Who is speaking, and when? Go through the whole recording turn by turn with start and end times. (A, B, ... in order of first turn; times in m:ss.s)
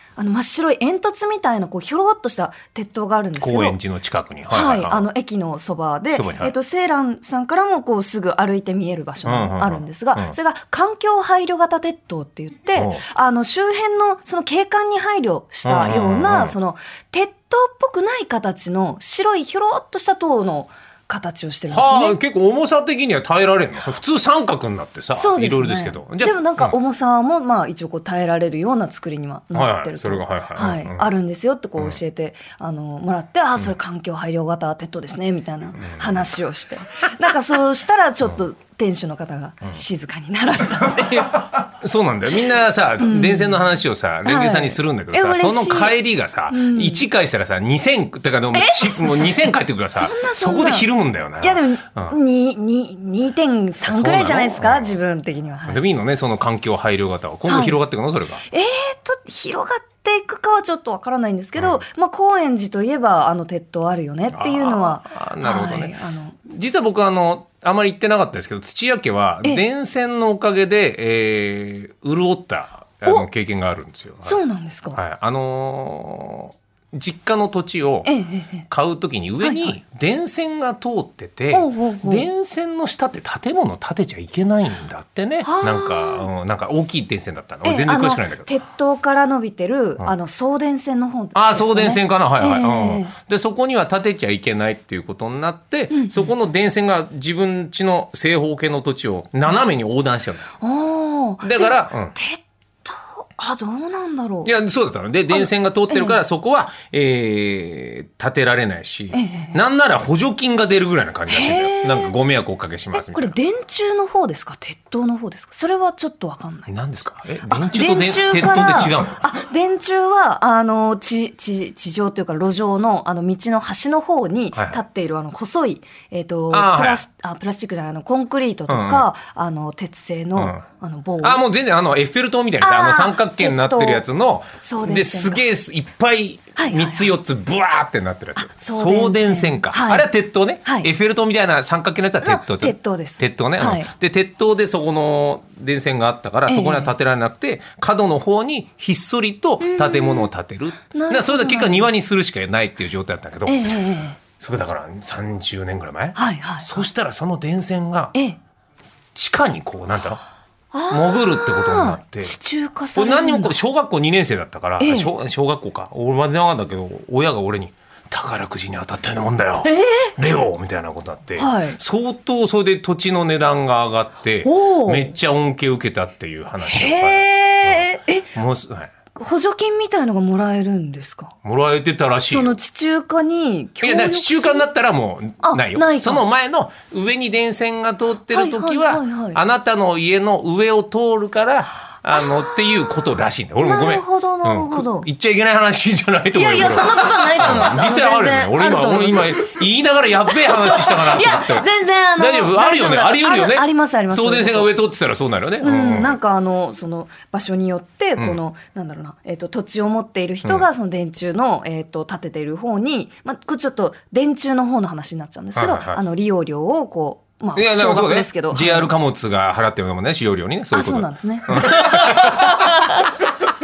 0:00.2-0:03.8 A
0:03.4-0:05.1 B
0:04.5-0:22.2 A
0:06.1-0:06.5 B
0:09.2-0:10.3 B
0:12.7-0:13.0 B
0:15.6-0:16.6 B
0:21.7-0:26.8 B
0:25.1-0:41.6 A
0:29.5-0:31.1 B
0:35.8-0:36.2 B
0:41.5-0:52.2 B
0:43.0-0:43.6 A
0:44.2-0:46.0 A
0:46.5-0:47.0 A
0:48.5-0:49.4 A
0:49.9-0:50.9 A
0:51.4-0:55.8 A
0:53.8-0:55.0 B
0:55.7-0:58.4 B
0:57.4-0:57.8 A
0:58.4-1:06.5 A
1:01.6-1:01.8 B
1:04.3-1:06.0 B
1:06.5-1:14.4 B
1:14.2-1:15.0 A
1:14.9-1:18.1 B
1:18.0-1:18.7 A
1:18.7-1:28.5 B
1:19.4-1:19.8 A
1:21.5-1:22.3 A
1:25.4-1:26.3 A
1:27.6-1:33.1 A
1:31.4-1:40.5 B
1:35.9-1:36.3 A
1:40.6-1:44.5 A
1:41.4-1:42.1 B
1:44.4-1:53.4 B
1:45.3-1:46.2 A
1:49.1-1:49.6 A
1:51.3-1:52.1 A
1:52.9-1:56.7 A
1:56.7-1:59.2 B
1:57.4-2:11.4 A
2:04.5-2:04.8 B
2:06.5-2:07.0 B
2:08.7-2:09.1 B
2:10.4-2:10.6 B
2:11.2-2:38.1 B
2:12.6-2:14.0 A
2:14.6-2:15.4 A
2:16.5-2:17.1 A
2:18.4-2:20.1 A
2:20.6-2:20.9 A
2:22.2-2:23.9 A
2:26.5-2:26.9 A
2:29.6-2:30.3 A
2:30.9-2:31.9 A
2:33.4-2:34.2 A
2:36.1-2:36.8 A
2:38.1-2:38.4 A
2:39.1-2:40.2 B
2:40.7-2:43.6 A
2:40.9-2:42.4 B
2:42.9-2:58.9 B
2:44.8-2:45.1 A
2:49.6-2:50.1 A
2:51.4-2:51.8 A
2:54.4-2:55.1 A
2:56.6-2:58.3 A
2:59.1-3:01.4 A
3:01.4-3:02.5 B
3:02.3-3:04.6 A
3:03.8-3:26.2 B
3:05.4-3:06.2 A
3:08.3-3:09.4 A
3:12.1-3:13.0 A
3:13.6-3:15.1 A
3:16.3-3:19.6 A
3:20.3-3:24.7 A
3:25.6-3:38.9 A
3:35.5-3:36.0 B
3:37.5-3:43.0 B
3:40.7-3:43.2 A